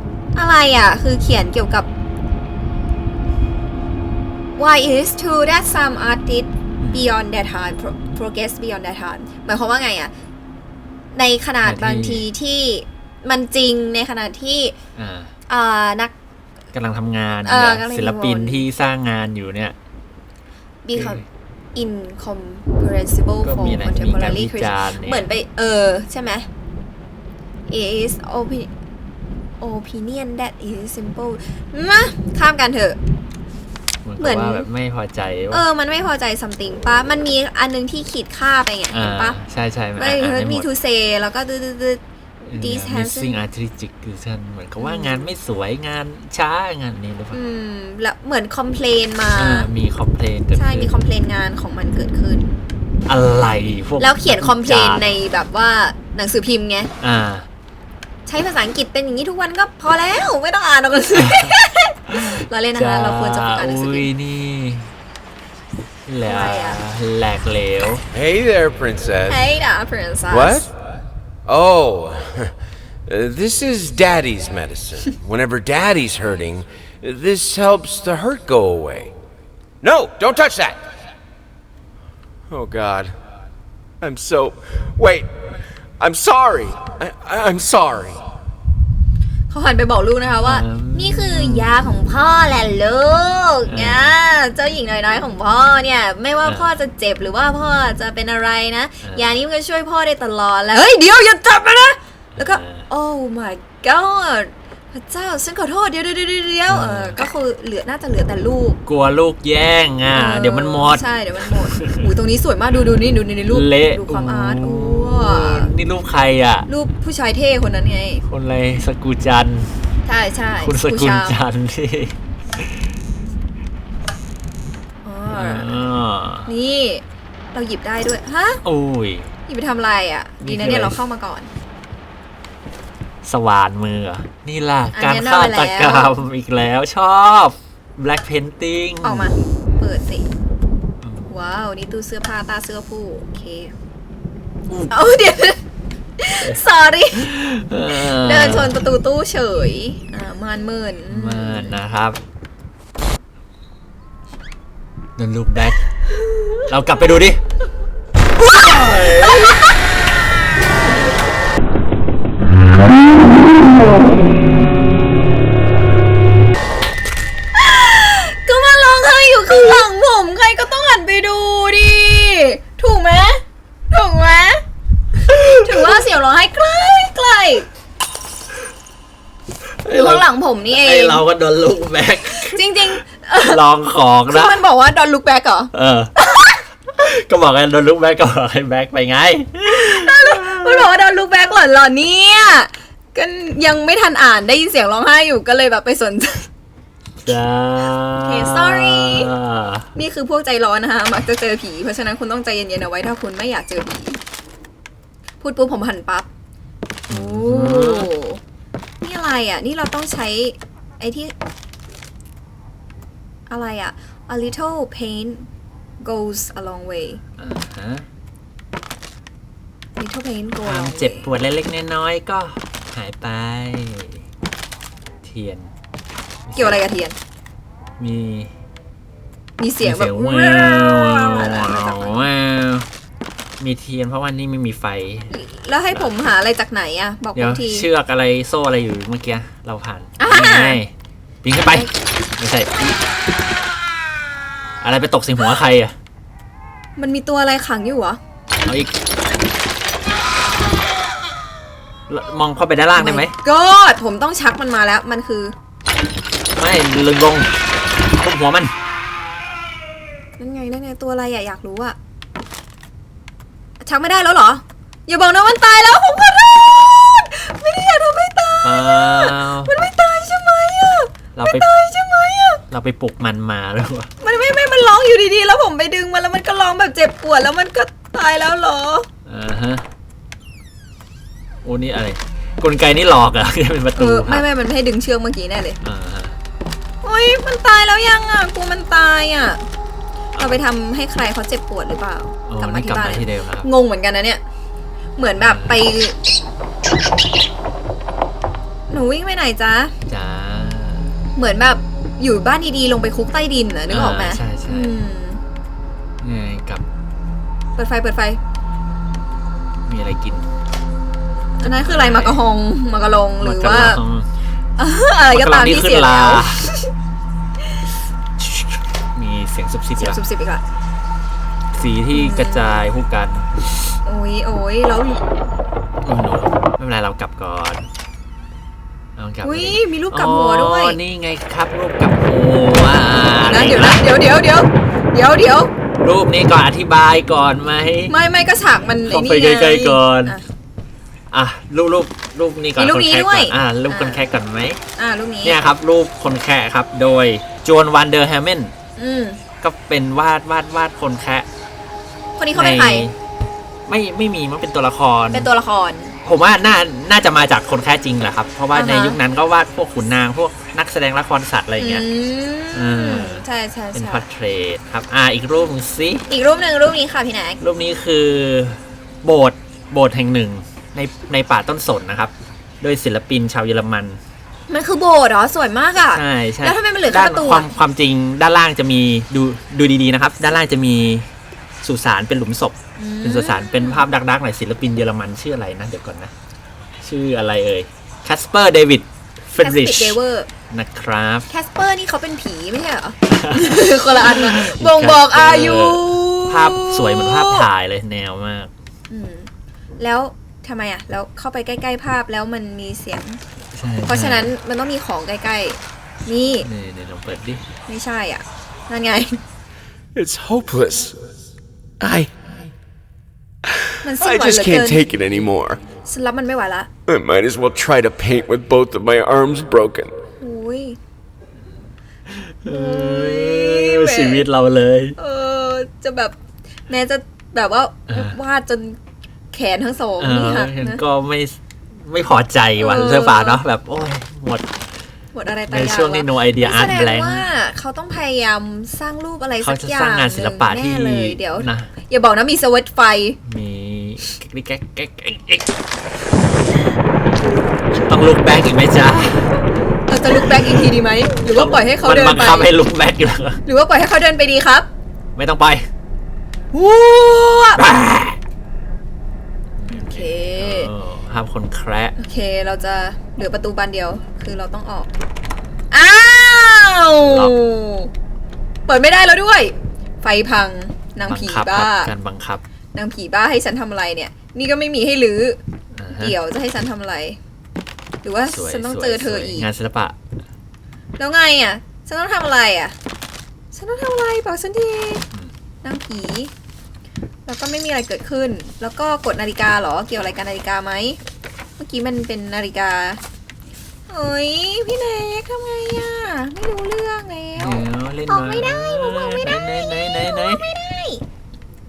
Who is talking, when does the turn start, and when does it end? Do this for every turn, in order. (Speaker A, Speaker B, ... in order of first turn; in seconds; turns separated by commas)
Speaker A: 0.3-1.9, Speaker A: 4.6-10.1, Speaker B: 6.8-7.1, Speaker A: 11.1-14.8, Speaker B: 11.6-12.2, Speaker B: 15.0-15.3, Speaker A: 15.5-16.1, Speaker B: 16.7-19.8, Speaker A: 17.5-18.7, Speaker A: 20.8-21.2, Speaker B: 20.9-21.2, Speaker A: 21.8-26.5, Speaker B: 23.4-25.2, Speaker A: 27.7-28.7, Speaker A: 29.6-33.0, Speaker B: 34.0-35.6, Speaker A: 34.2-34.7, Speaker A: 35.5-39.4, Speaker B: 38.9-40.7, Speaker A: 40.0-42.0, Speaker B: 42.4-47.4, Speaker A: 42.6-43.4, Speaker A: 44.8-45.3, Speaker A: 47.3-49.7, Speaker B: 49.3-50.9, Speaker A: 50.6-52.5, Speaker B: 53.1-55.1, Speaker A: 54.0-56.9, Speaker B: 57.0-57.5, Speaker A: 58.3-64.1, Speaker B: 61.1-61.5, Speaker B: 62.1-64.9, Speaker B: 66.1-68.0, Speaker A: 66.2-66.8, Speaker C: 68.1-69.5, Speaker A: 69.3-70.7, Speaker C: 70.3-70.7, Speaker C: 71.5-72.5, Speaker C: 73.1-79.1, Speaker C: 79.8-80.8, Speaker C: 82.5-83.2, Speaker C: 84.0-88.2, Speaker A: 89.5-108.8, Speaker B: 90.4-91.7, Speaker B: 93.7-94.2, Speaker B: 96.4-96.7, Speaker B: 99.0-99.3, Speaker B: 102.4-102.9, Speaker B: 106.7-107.2, Speaker B: 108.9-112.1, Speaker A: 110.1-115.7, Speaker B: 113.5-116.7, Speaker A: 116.7-118.2, Speaker B: 118.3-119.7, Speaker A: 120.1-121.4, Speaker B: 120.6-122.9, Speaker A: 125.0-125.8, Speaker B: 125.3-126.5, Speaker A: 126.5-127.0, Speaker A: 127.5-128.6, Speaker B: 128.6-129.3, Speaker A: 129.5-131.5, Speaker B: 130.4-131.0, Speaker B: 133.2-139.8, Speaker A: 134.9-136.1, Speaker A: 139.0-140.3, Speaker B: 141.0-141.3, Speaker A: 141.3-143.7, Speaker A: 144.9-145.6, Speaker A: 146.2-147.3, Speaker B: 147.1-148.7, Speaker A: 147.9-151.8, Speaker B: 151.1-152.2, Speaker B: 155.2-155.8, Speaker A: 156.3-156.6, Speaker B: 156.7-157.4, Speaker B: 158.4-159.6, Speaker A: 158.9-159.8, Speaker A: 167.5-174.6, Speaker A: 175.2-177.7, Speaker B: 175.3-176.0, Speaker B: 179.8-182.6, Speaker A: 179.9-181.2, Speaker A: 182.4-183.6, Speaker B: 183.4-184.6, Speaker A: 184.3-186.6, Speaker B: 185.7-186.1, Speaker B: 187.0-190.9, Speaker A: 189.7-196.5, Speaker B: 197.2-199.9, Speaker A: 198.2-199.3, Speaker A: 199.9-204.2, Speaker A: 205.4-206.3, Speaker B: 207.1-208.1, Speaker A: 207.1-208.4, Speaker A: 209.0-211.3, Speaker A: 213.5-215.5, Speaker A: 216.0-217.2, Speaker B: 217.4-218.1, Speaker A: 220.0-221.2, Speaker B: 220.7-224.2, Speaker B: 225.2-225.7, Speaker B: 226.5-226.8, Speaker A: 226.6-227.2, Speaker B: 228.0-228.5, Speaker A: 229.6-232.2, Speaker B: 229.8-232.9, Speaker B: 233.6-235.3, Speaker A: 235.3-237.9, Speaker B: 237.3-240.9, Speaker A: 240.2-240.8, Speaker B: 241.4-243.0, Speaker B: 244.8-245.9, Speaker A: 247.0-248.2, Speaker B: 248.7-248.9, Speaker B: 252.1-253.3, Speaker A: 253.0-255.5, Speaker B: 256.6-257.5, Speaker B: 258.1-258.7, Speaker A: 260.4-262.0, Speaker A: 263.8-272.6, Speaker B: 268.6-269.7, Speaker B: 271.4-271.7, Speaker B: 272.7-274.1, Speaker A: 274.2-279.1, Speaker B: 279.3-279.9, Speaker B: 281.6-284.4, Speaker A: 284.0-285.8, Speaker B: 285.8-286.4, Speaker A: 287.0-289.6, Speaker B: 290.4-290.6, Speaker A: 290.4-294.4, Speaker B: 292.5-293.7, Speaker A: 295.2-296.2, Speaker B: 295.4-295.8, Speaker A: 298.9-299.9, Speaker B: 300.1-301.1, Speaker A: 301.4-305.4, Speaker B: 303.9-305.0, Speaker B: 306.2-306.8, Speaker A: 307.8-308.4, Speaker B: 309.9-310.5, Speaker A: 311.6-314.0, Speaker B: 311.6-312.4, Speaker B: 313.4-314.3, Speaker A: 314.8-316.9, Speaker B: 315.3-316.8, Speaker B: 318.4-320.2, Speaker A: 320.0-320.6, Speaker B: 321.7-323.6, Speaker A: 322.1-322.9, Speaker A: 324.1-325.2, Speaker B: 326.0-327.9, Speaker B: 329.2-334.0, Speaker A: 329.4-331.0, Speaker A: 333.5-335.7, Speaker B: 336.0-338.1, Speaker A: 338.1-340.4, Speaker B: 339.1-340.4, Speaker B: 341.3-344.8, Speaker A: 342.8-344.2, Speaker A: 345.0-345.6, Speaker B: 345.4-348.7, Speaker A: 349.0-349.4, Speaker B: 349.6-351.5, Speaker A: 352.4-353.1, Speaker B: 352.5-353.2, Speaker B: 353.9-355.5, Speaker A: 355.3-356.1, Speaker B: 356.2-362.1, Speaker A: 358.8-359.2, Speaker A: 361.8-364.2, Speaker B: 362.7-366.2, Speaker A: 366.3-367.6, Speaker B: 367.6-374.2, Speaker A: 374.7-377.7, Speaker B: 376.1-381.3, Speaker B: 381.8-386.3, Speaker A: 383.0-384.0, Speaker B: 387.0-390.2, Speaker A: 389.6-390.5, Speaker B: 390.7-391.5, Speaker A: 391.5-397.7, Speaker B: 393.3-398.7, Speaker A: 399.1-403.4, Speaker B: 403.7-404.5, Speaker A: 404.1-406.7, Speaker B: 406.6-407.6, Speaker A: 407.9-409.4, Speaker C: 410.1-411.2, Speaker C: 412.0-412.3, Speaker C: 413.7-415.8, Speaker A: 414.0-415.1, Speaker A: 416.1-416.9, Speaker C: 417.1-420.1, Speaker A: 420.4-421.0, Speaker B: 422.3-425.2, Speaker A: 422.6-424.4, Speaker A: 425.2-426.4, Speaker A: 426.9-429.0, Speaker B: 428.1-428.4, Speaker A: 429.5-431.0, Speaker B: 430.2-434.7, Speaker A: 432.8-433.6, Speaker A: 435.3-443.4, Speaker B: 435.7-437.5, Speaker B: 439.6-441.9, Speaker B: 443.4-445.7, Speaker B: 447.9-449.6, Speaker A: 450.1-452.7, Speaker B: 450.4-450.8, Speaker B: 451.4-453.6, Speaker A: 453.7-454.9, Speaker B: 455.4-455.9, Speaker A: 456.7-457.8, Speaker B: 457.8-458.4, Speaker A: 459.8-460.9, Speaker B: 459.9-462.1, Speaker A: 462.2-465.1, Speaker A: 465.9-468.1, Speaker B: 467.2-467.6, Speaker A: 468.9-472.1, Speaker B: 471.3-472.6, Speaker A: 472.9-475.6, Speaker B: 475.9-476.4, Speaker A: 476.2-477.4, Speaker A: 478.2-479.7, Speaker B: 478.5-480.2, Speaker A: 481.2-482.9, Speaker A: 483.7-485.2, Speaker A: 485.8-486.5, Speaker A: 487.5-491.2, Speaker A: 491.8-493.2, Speaker A: 494.1-501.2, Speaker B: 497.6-500.6